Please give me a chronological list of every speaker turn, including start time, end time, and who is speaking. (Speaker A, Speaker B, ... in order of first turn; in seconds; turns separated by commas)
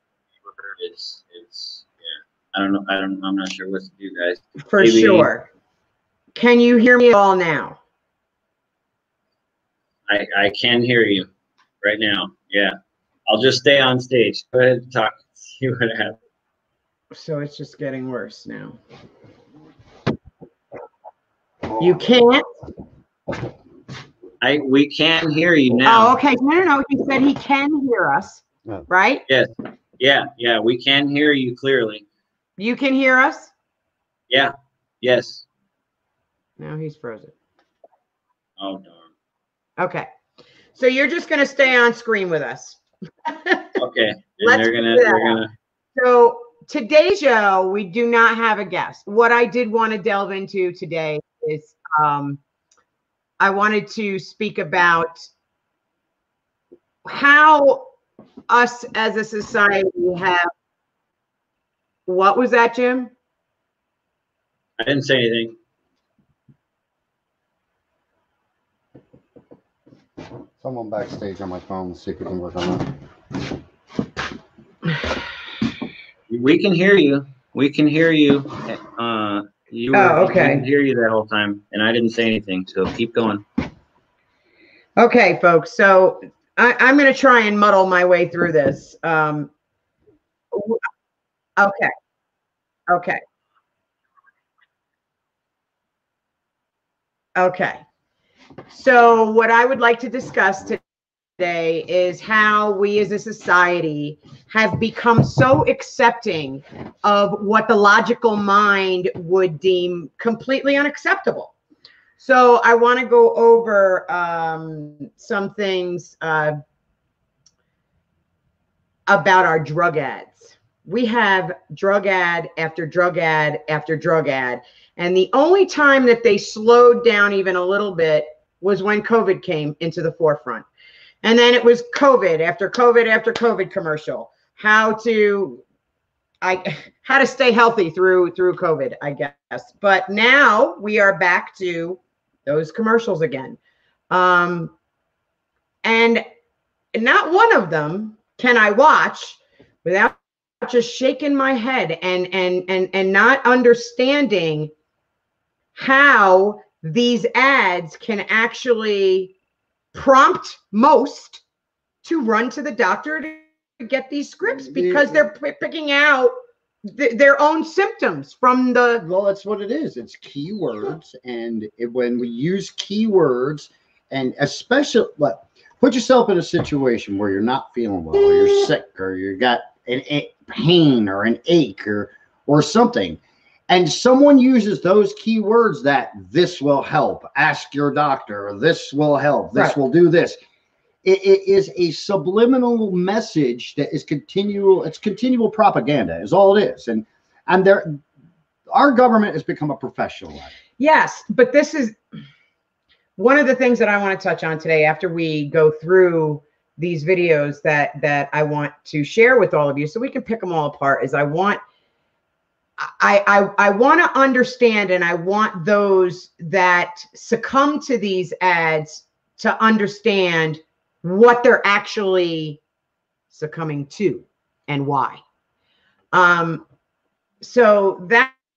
Speaker A: 0.7-1.9, Speaker A: 2.5-5.3, Speaker B: 4.7-5.5, Speaker B: 6.3-7.8, Speaker A: 10.1-11.3, Speaker A: 11.8-12.7, Speaker A: 13.3-16.2, Speaker B: 17.1-18.8, Speaker B: 21.8-22.4, Speaker A: 24.4-26.2, Speaker B: 25.8-29.2, Speaker A: 29.3-32.0, Speaker B: 32.6-33.5, Speaker A: 34.3-35.4, Speaker B: 36.6-37.3, Speaker A: 38.6-39.0, Speaker B: 39.8-40.1, Speaker B: 40.7-43.7, Speaker A: 43.8-45.5, Speaker B: 44.4-45.4, Speaker B: 46.0-52.4, Speaker B: 53.4-55.3, Speaker B: 57.0-57.9, Speaker B: 58.5-60.5, Speaker B: 62.1-63.1, Speaker A: 64.8-65.5, Speaker C: 70.6-72.9, Speaker A: 76.3-83.4, Speaker B: 79.9-80.7, Speaker B: 85.0-89.5, Speaker B: 90.5-90.8, Speaker B: 91.6-91.9, Speaker B: 92.9-93.2, Speaker B: 97.3-97.8, Speaker B: 98.7-100.8, Speaker B: 101.4-111.5, Speaker B: 112.2-116.6, Speaker B: 119.1-130.7, Speaker B: 131.2-135.6, Speaker B: 136.4-143.6, Speaker B: 144.1-144.7, Speaker B: 145.8-146.2, Speaker B: 146.9-154.7, Speaker B: 155.7-159.3, Speaker B: 159.9-161.4, Speaker B: 162.0-166.3, Speaker C: 164.5-165.2, Speaker B: 166.8-169.1, Speaker C: 169.0-190.4, Speaker C: 191.0-198.0, Speaker C: 198.7-200.5, Speaker B: 200.8-202.0, Speaker B: 203.2-211.6, Speaker B: 212.8-222.6, Speaker B: 223.3-225.2, Speaker B: 226.1-226.6, Speaker B: 227.4-228.3